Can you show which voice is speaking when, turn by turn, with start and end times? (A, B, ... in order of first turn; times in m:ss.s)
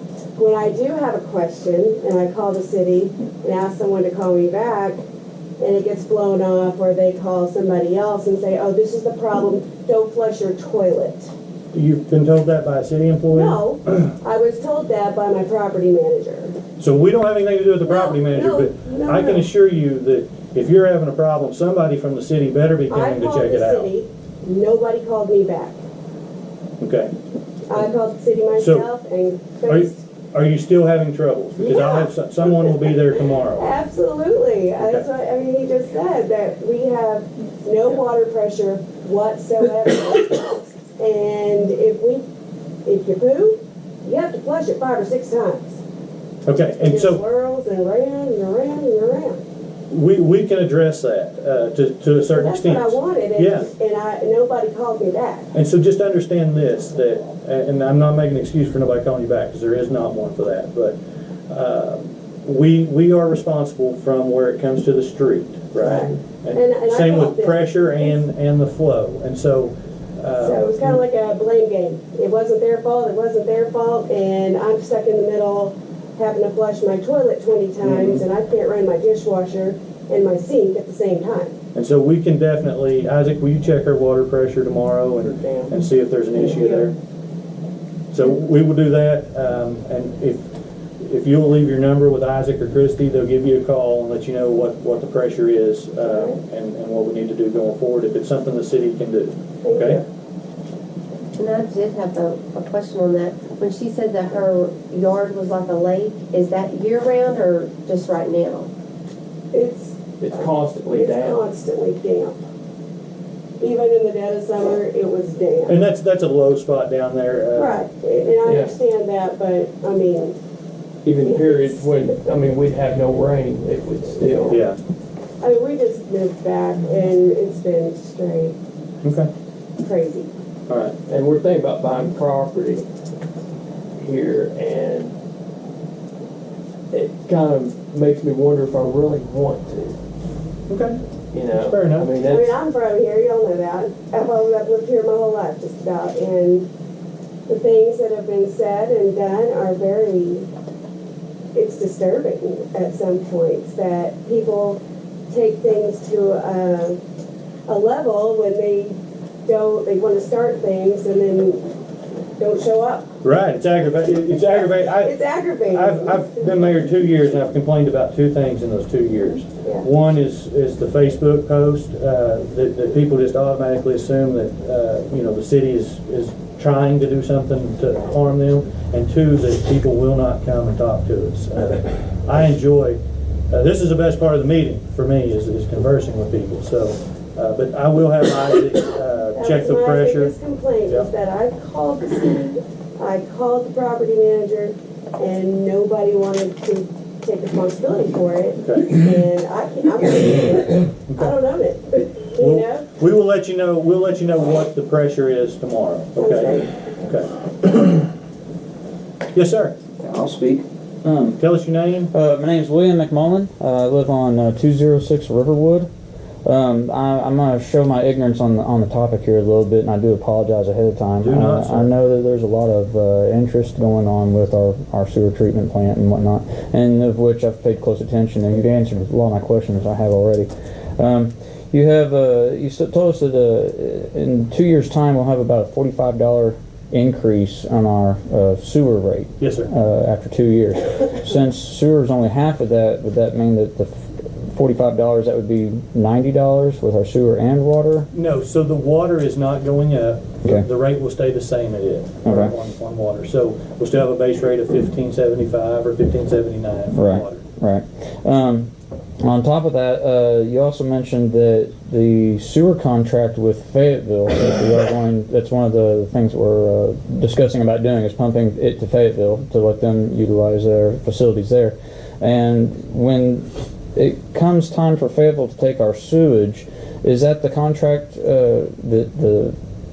0:00.4-0:05.0 A
0:05.6-0:11.3 A
0:11.7-0:13.6 B
0:13.3-0:16.6 A
0:16.8-0:23.9 B
0:17.8-0:19.5 A
0:22.9-0:25.8 A
0:26.8-0:27.1 B
0:27.7-0:30.0 A
0:28.6-0:28.9 B
0:29.7-0:33.7 B
0:31.6-0:32.8 A
0:33.6-0:42.2 A
0:34.8-0:35.1 B
0:42.8-0:45.8 A
0:46.5-0:47.2 B
0:46.8-0:49.4 A
0:49.9-0:53.7 B
0:52.3-0:55.5 A
0:55.5-1:01.0 B
1:01.5-1:11.0 B
1:05.8-1:08.2 A
1:10.4-1:21.6 A
1:17.8-1:18.2 B
1:21.7-1:27.0 B
1:28.1-1:30.5 B
1:31.0-1:40.0 B
1:36.0-1:36.4 A
1:39.6-1:40.0 A
1:41.4-1:48.7 C
1:49.5-1:50.0 A
1:50.2-1:51.4 D
1:50.9-1:52.4 A
1:53.6-1:55.8 A
1:55.7-1:57.8 B
1:57.6-2:00.4 A
1:58.4-1:58.7 D
2:01.0-2:04.6 D
2:01.2-2:01.8 A
2:04.5-2:04.8 B
2:05.4-2:08.6 A
2:09.0-2:09.3 B
2:09.8-2:10.3 A
2:10.7-2:11.0 B
2:11.1-2:12.8 D
2:14.0-2:15.2 D
2:16.9-2:20.0 D
2:20.7-2:21.0 B
2:21.3-2:22.6 D
2:21.5-2:22.1 B
2:22.2-2:26.7 A
2:27.5-2:30.5 A
2:31.5-2:37.0 A
2:37.7-2:41.6 A
2:42.4-2:43.1 A
2:43.2-2:45.2 B
2:44.3-2:46.5 A
2:45.7-3:10.3 B
3:09.4-3:22.9 A
3:18.6-3:19.0 B
3:21.1-3:21.3 B
3:22.4-3:28.1 B
3:26.2-3:26.8 A
3:29.3-3:29.8 B
3:30.0-3:31.4 E
3:31.3-3:32.1 B
3:32.1-3:35.9 E
3:36.4-4:08.1 E
3:41.2-3:41.9 B
3:59.4-3:59.7 B
4:08.1-4:17.4 B
4:12.2-4:12.5 E
4:16.9-4:18.7 E
4:19.2-4:39.6 E